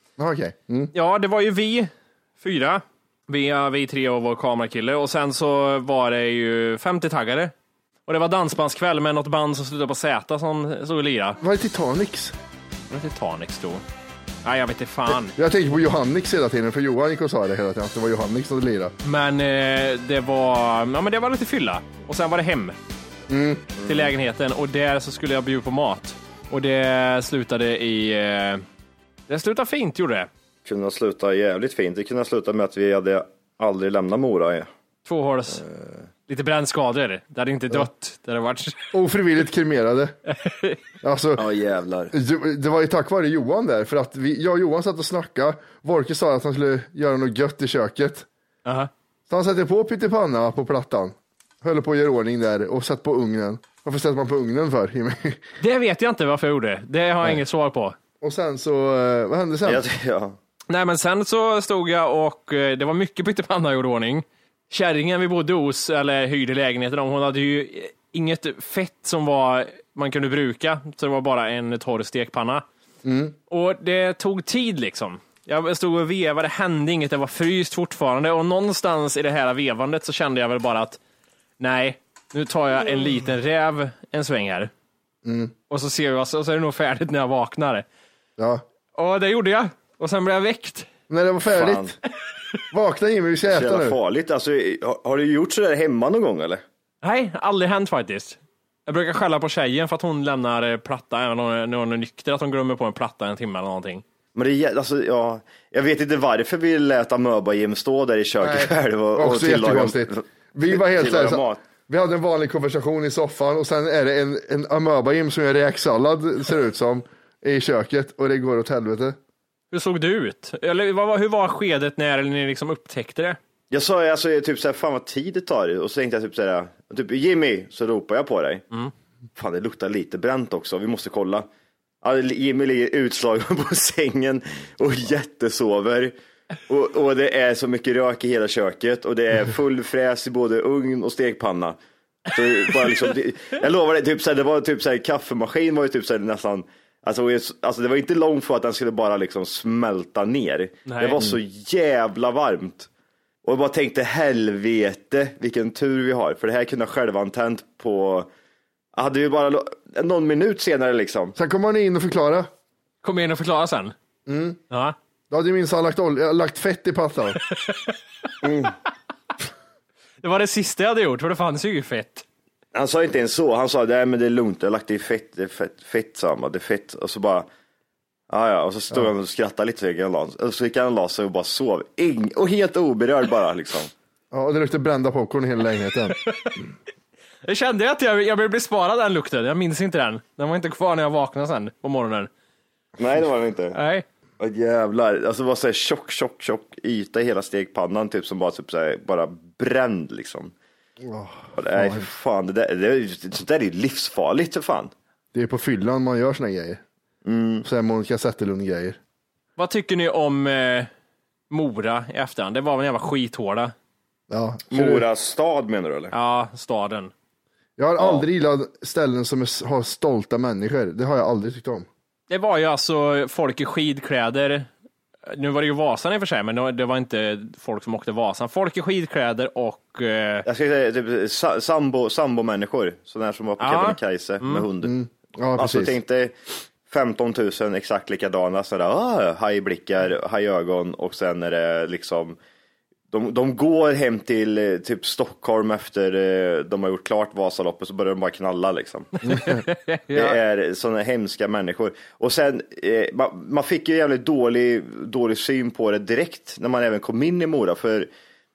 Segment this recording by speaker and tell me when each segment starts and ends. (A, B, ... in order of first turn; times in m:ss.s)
0:00.2-0:00.9 A
0:00.9-0:07.5 B
0:08.1-0:11.4 B
0:11.4-0:12.4 A
0:12.9-0:13.8 B
0:14.4-0:15.4 B
0:15.1-0:18.9 A
0:19.0-0:22.8 B
0:23.3-0:23.7 A
0:23.8-0:24.1 C
0:23.8-0:28.6 B
0:29.3-0:30.3 B
0:30.7-0:34.7 C
0:35.1-0:35.6 B
0:35.5-0:36.0 C
0:36.3-0:38.9 B
0:38.9-0:40.2 A
0:40.3-0:40.8 B
0:41.0-0:41.5 A
0:41.4-0:42.1 C
0:42.1-0:48.3 A
0:48.6-0:48.9 B
0:49.3-0:55.4 A
0:55.6-0:58.0 B
0:58.2-0:59.8 A
0:59.6-1:00.4 C
1:00.7-1:12.6 B
1:13.0-1:13.4 A
1:13.5-1:21.0 B
1:21.6-1:24.7 B
1:25.2-1:25.5 A
1:25.7-1:27.8 B
1:28.4-1:28.6 A
1:29.0-1:30.9 B
1:31.1-1:32.0 A
1:31.5-1:32.0 C
1:32.7-1:34.0 A
1:33.5-1:36.6 C
1:37.0-1:44.0 B
1:44.4-1:51.6 C
1:48.4-1:59.2 A
1:59.7-2:03.4 B
2:03.7-2:08.6 C
2:09.4-2:11.5 C
2:12.0-2:16.1 C
2:16.7-2:32.9 C
2:30.9-2:31.2 B
2:33.4-2:38.3 C
2:39.0-2:41.4 C
2:41.4-2:42.5 A
2:43.0-2:43.9 B
2:44.3-2:44.6 A
2:44.7-2:45.0 B
2:45.3-2:47.4 A
2:47.5-2:47.9 B
2:48.4-2:48.7 C
2:50.2-2:52.2 B
2:52.7-2:57.5 C
2:58.3-3:03.9 C
3:04.3-3:06.2 A
3:06.2-3:06.6 B
3:07.4-3:12.3 B
3:13.0-3:13.8 C
3:13.7-3:14.0 B
3:14.4-3:20.5 C
3:21.0-3:22.1 A
3:21.6-3:24.9 C
3:25.3-3:26.8 A
3:27.2-3:27.7 C
3:27.6-3:29.0 A
3:29.6-3:30.9 B
3:31.5-3:33.7 B
3:34.3-3:35.0 A
3:34.7-3:36.1 C
3:36.1-3:37.1 B
3:37.8-3:41.9 A
3:38.0-3:38.2 C
3:42.3-3:44.7 B
3:45.3-3:50.5 B
3:50.4-3:55.0 C
3:53.6-3:54.7 B
3:54.8-3:56.0 A
3:55.6-3:56.4 C
3:56.9-4:02.4 C
4:03.1-4:09.6 C
4:09.3-4:10.4 B
4:10.1-4:18.1 C